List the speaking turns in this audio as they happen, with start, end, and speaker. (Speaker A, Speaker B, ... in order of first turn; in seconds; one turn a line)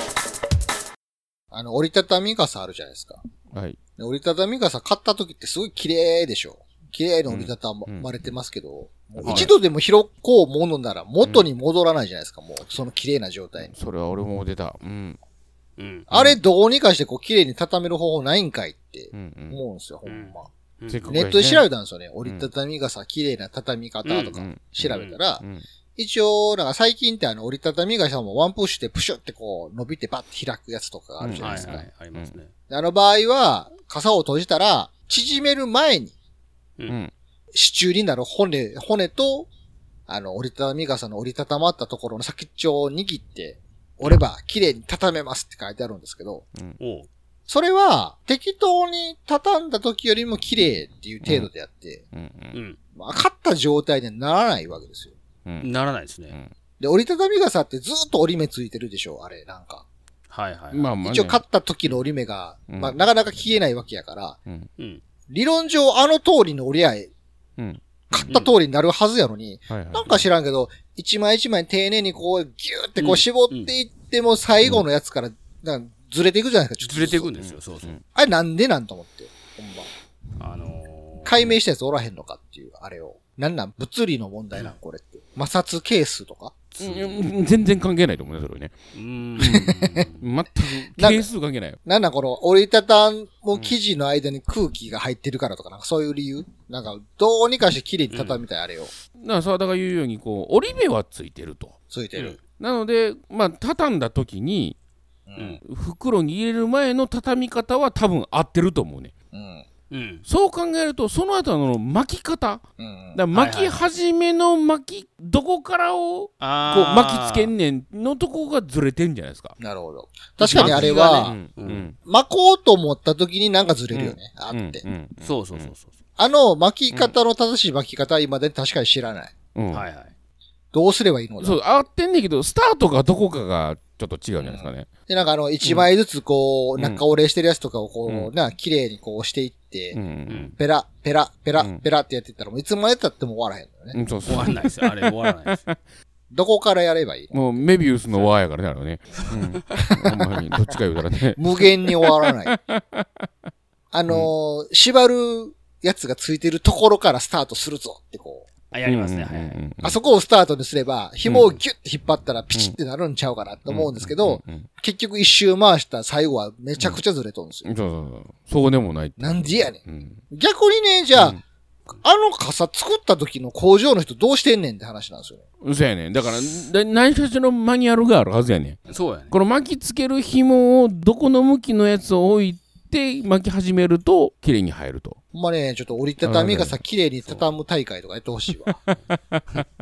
Speaker A: 1.5-3.2
Speaker A: 4.0-13.7
Speaker B: 7.3-8.1
Speaker B: 9.2-9.5
Speaker C: 9.2-9.5
Speaker B: 13.6-15.2
Speaker C: 15.8-16.3
Speaker A: 16.1-20.5
Speaker B: 19.1-19.6
Speaker C: 20.0-21.1
Speaker B: 20.9-21.6
Speaker A: 21.1-25.4
Speaker C: 24.1-24.4
Speaker B: 24.2-25.6
Speaker C: 24.9-25.2
Speaker A: 25.9-31.8
Speaker B: 31.2-32.3
Speaker C: 31.4-32.5
Speaker A: 32.7-36.1
Speaker B: 36.9-37.1
Speaker A: 37.5-39.5
Speaker A: 40.1-46.5
Speaker C: 46.8-47.1
Speaker A: 47.5-52.0
Speaker B: 52.1-52.6
Speaker C: 52.5-52.8
Speaker A: 52.9-55.1
Speaker B: 55.4-55.7
Speaker C: 55.6-56.4
Speaker A: 56.8-59.8
Speaker C: 60.3-60.9
Speaker B: 60.7-61.4
Speaker A: 61.0-64.4
Speaker B: 62.7-63.0
Speaker A: 65.3-67.1
Speaker B: 67.6-68.4
Speaker A: 68.1-77.3
Speaker B: 69.7-70.1
Speaker C: 73.0-73.7
Speaker C: 76.8-78.0
Speaker B: 77.4-78.0
Speaker A: 78.1-79.9
Speaker C: 80.4-81.6
Speaker A: 81.2-86.5
Speaker C: 86.7-87.2
Speaker B: 86.8-88.7
Speaker C: 88.9-90.2
Speaker A: 89.4-90.0
Speaker B: 90.2-91.8
Speaker A: 90.7-91.3
Speaker A: 91.8-98.9
Speaker C: 98.1-98.4
Speaker B: 99.2-101.8
Speaker A: 101.9-102.4
Speaker C: 102.1-102.4
Speaker B: 102.6-104.8
Speaker A: 105.3-105.6
Speaker C: 105.3-105.6
Speaker B: 105.6-109.1
Speaker A: 109.3-109.7
Speaker C: 109.9-110.2
Speaker B: 110.3-112.6
Speaker A: 112.8-113.2
Speaker B: 113.1-119.6
Speaker C: 113.3-113.8
Speaker C: 116.4-117.5
Speaker A: 119.6-121.4
Speaker C: 120.4-121.9
Speaker B: 120.4-122.0
Speaker A: 122.0-124.8
Speaker B: 124.5-125.7
Speaker C: 125.2-125.9
Speaker A: 126.2-129.3
Speaker B: 129.5-129.8
Speaker C: 129.7-130.1
Speaker A: 130.7-131.6
Speaker B: 131.4-134.9
Speaker A: 134.4-140.0
Speaker B: 139.9-140.5
Speaker C: 140.3-140.6
Speaker A: 140.6-144.0
Speaker B: 141.6-141.8
Speaker B: 143.9-145.8
Speaker C: 144.3-145.7
Speaker A: 146.3-147.7
Speaker B: 147.3-153.3
Speaker A: 149.8-150.1
Speaker A: 151.3-152.5
Speaker A: 153.9-158.5
Speaker C: 158.7-159.6
Speaker B: 158.8-160.0
Speaker A: 159.8-167.7
Speaker C: 161.3-161.6
Speaker B: 163.7-164.6
Speaker B: 167.6-170.2
Speaker A: 169.2-171.4
Speaker B: 171.1-171.4
Speaker A: 171.9-175.4
Speaker B: 175.6-185.2
Speaker C: 178.9-179.3
Speaker A: 185.3-188.8
Speaker B: 186.2-186.8
Speaker C: 187.2-187.5
Speaker B: 189.1-189.6